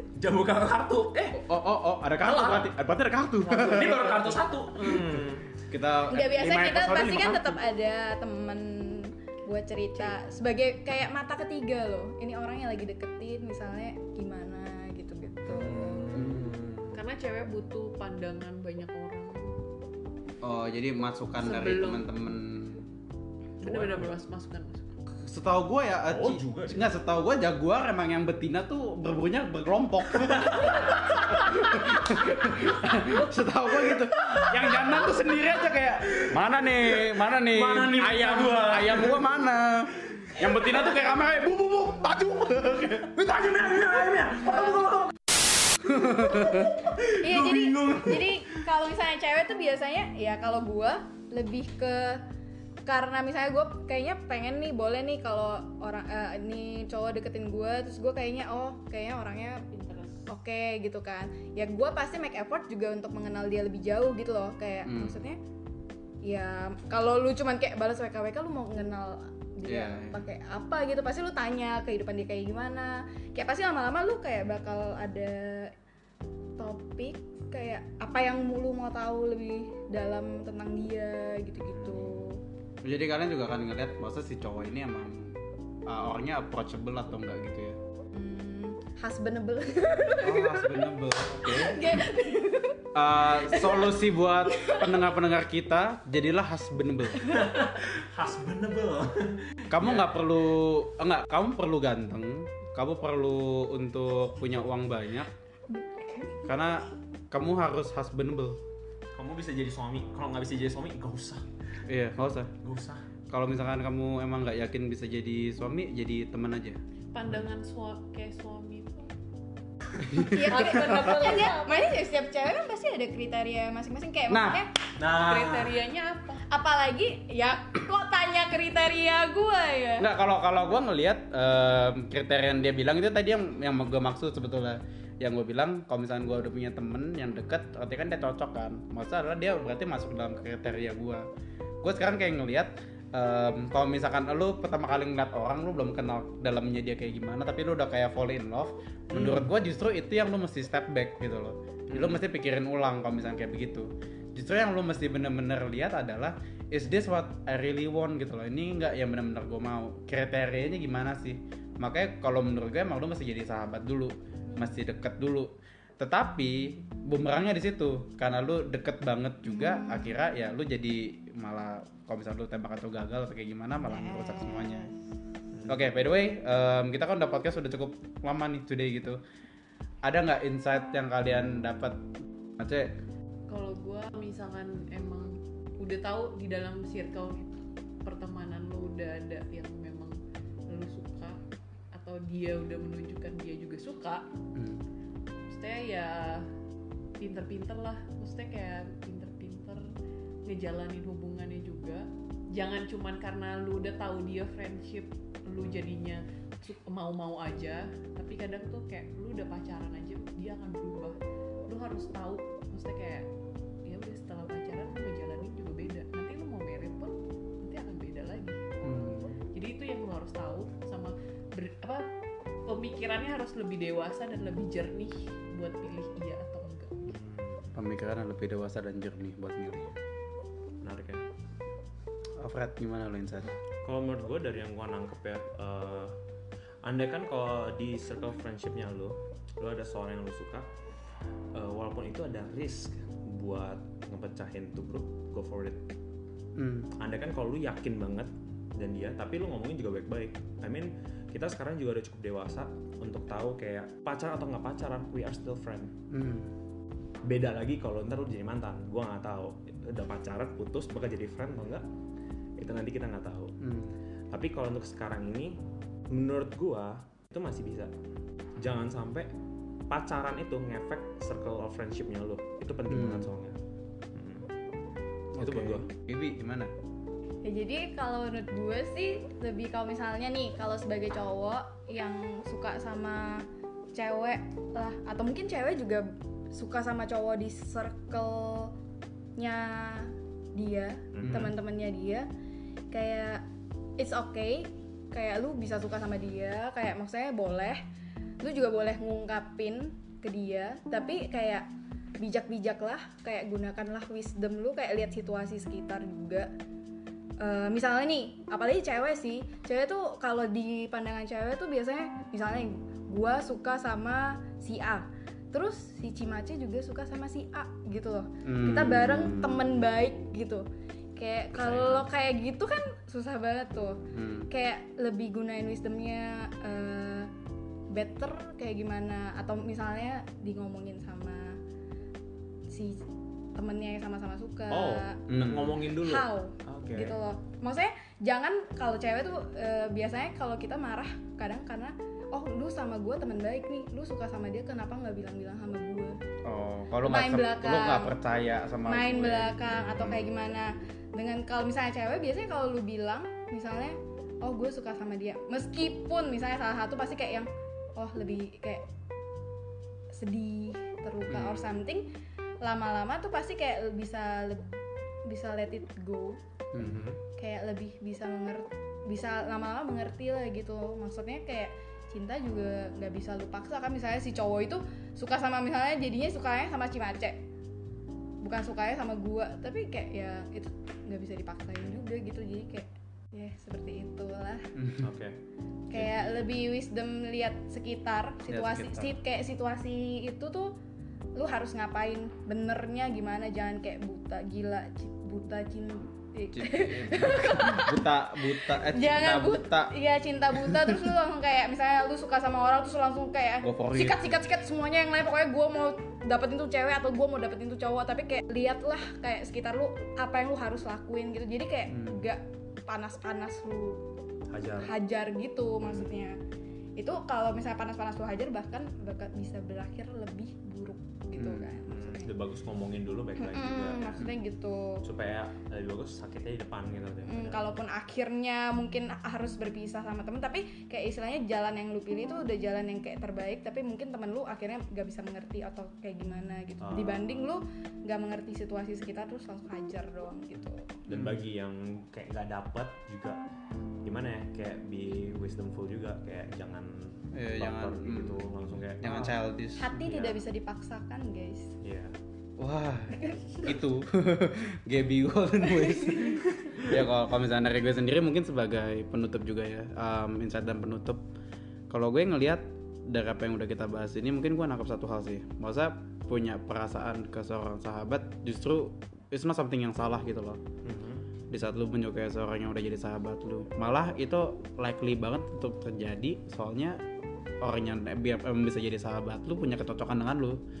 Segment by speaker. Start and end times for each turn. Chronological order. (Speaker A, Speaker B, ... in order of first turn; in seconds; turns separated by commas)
Speaker A: 0.1-1.4, Speaker B: 1.3-7.6, Speaker A: 2.2-2.7, Speaker A: 3.5-5.5, Speaker C: 6.1-16.2, Speaker A: 15.5-17.0, Speaker B: 16.1-16.6, Speaker D: 16.9-19.5, Speaker B: 20.4-22.8, Speaker D: 21.4-22.1, Speaker D: 23.6-24.8, Speaker A: 23.6-24.1, Speaker B: 25.1-43.1, Speaker A: 26.1-26.9, Speaker A: 30.2-32.1, Speaker A: 33.9-35.1, Speaker A: 36.0-36.4, Speaker A: 36.9-39.3, Speaker A: 40.2-40.9, Speaker A: 43.1-48.6, Speaker B: 45.8-46.8, Speaker C: 47.1-52.2, Speaker C: 52.8-59.7, Speaker D: 59.7-60.2, Speaker C: 60.3-65.4, Speaker B: 64.8-65.2, Speaker C: 66.2-75.7, Speaker B: 69.6-70.3, Speaker C: 76.6-82.4, Speaker A: 81.7-82.1, Speaker B: 82.8-87.8, Speaker C: 88.1-94.0, Speaker B: 90.2-92.1, Speaker B: 92.9-97.3, Speaker C: 94.5-95.0, Speaker A: 97.2-100.1, Speaker B: 99.7-105.3, Speaker C: 105.7-106.5, Speaker B: 106.4-108.6, Speaker A: 109.1-111.4, Speaker B: 111.9-112.5, Speaker A: 112.6-113.0, Speaker B: 113.3-116.8, Speaker D: 117.1-119.1, Speaker B: 120.0-121.4, Speaker C: 120.2-124.7, Speaker D: 120.2-121.8, Speaker B: 124.3-124.7, Speaker A: 125.0-125.8, Speaker D: 125.0-126.4, Speaker C: 126.5-130.1, Speaker B: 130.0-141.2, Speaker B: 141.8-174.9, Speaker A: 149.1-149.5, Speaker A: 151.9-152.2, Speaker C: 169.5-170.1, Speaker C: 173.8-174.9, Speaker B: 175.7-179.2, Speaker B: 180.0-182.0, Speaker B: 182.6-182.9, Speaker D: 183.5-190.2, Speaker D: 190.7-191.4, Speaker D: 191.9-194.3, Speaker B: 194.5-194.8, Speaker D: 195.5-196.5, Speaker D: 197.2-199.9, Speaker D: 200.4-213.3, Speaker D: 213.8-222.1, Speaker B: 218.8-219.4, Speaker D: 222.7-227.1, Speaker A: 227.1-227.8, Speaker B: 227.7-229.9, Speaker A: 230.8-231.2, Speaker B: 232.4-233.6, Speaker A: 233.8-236.1, Speaker A: 236.8-240.7, Speaker A: 241.5-245.8, Speaker B: 246.6-246.9, Speaker A: 246.9-255.9, Speaker B: 256.1-256.5, Speaker A: 257.2-261.9, Speaker A: 262.6-263.6, Speaker B: 263.6-263.9, Speaker A: 264.3-267.9, Speaker A: 268.6-269.3, Speaker A: 269.9-273.6, Speaker B: 272.9-273.3, Speaker A: 274.1-274.5, Speaker B: 275.3-276.7, Speaker A: 275.4-275.9, Speaker C: 277.4-288.7, Speaker C: 289.4-292.3, Speaker A: 291.1-291.5, Speaker B: 291.2-291.5, Speaker C: 292.9-293.4, Speaker C: 294.0-297.8, Speaker C: 298.4-306.5, Speaker C: 307.4-327.3, Speaker B: 318.4-319.8, Speaker A: 321.6-322.0, Speaker B: 321.6-321.9, Speaker B: 324.1-324.5, Speaker C: 327.9-331.6, Speaker C: 332.7-335.2, Speaker A: 334.7-337.2, Speaker B: 335.3-335.8, Speaker C: 335.9-346.2, Speaker B: 346.4-350.3, Speaker C: 347.0-348.1, Speaker C: 348.8-358.9, Speaker C: 360.1-362.1, Speaker B: 361.3-361.7, Speaker C: 362.6-366.4, Speaker B: 366.7-367.1, Speaker A: 366.8-367.2, Speaker C: 367.4-377.4, Speaker C: 378.4-384.7, Speaker B: 384.8-385.0, Speaker A: 385.0-385.4, Speaker C: 385.9-390.8, Speaker A: 385.9-386.5, Speaker B: 388.5-389.1, Speaker C: 391.3-414.0, Speaker B: 396.5-399.9, Speaker B: 400.5-401.1, Speaker B: 403.6-404.4, Speaker B: 411.9-412.2, Speaker A: 414.5-414.9, Speaker C: 414.8-416.4, Speaker A: 415.8-416.1, Speaker C: 416.9-422.3, Speaker B: 421.3-421.8, Speaker A: 421.8-424.3, Speaker C: 423.4-425.0, Speaker A: 425.0-427.7, Speaker C: 427.2-441.0, Speaker A: 436.8-437.4, Speaker A: 441.0-443.4, Speaker B: 441.1-441.4, Speaker A: 444.0-449.3, Speaker B: 447.3-450.0, Speaker C: 449.8-451.7, Speaker A: 450.0-450.4, Speaker A: 451.8-452.1, Speaker B: 452.6-461.2, Speaker C: 453.2-453.6, Speaker C: 456.0-456.3, Speaker B: 461.9-470.6, Speaker A: 470.8-471.2, Speaker B: 471.5-477.0, Speaker B: 477.6-480.6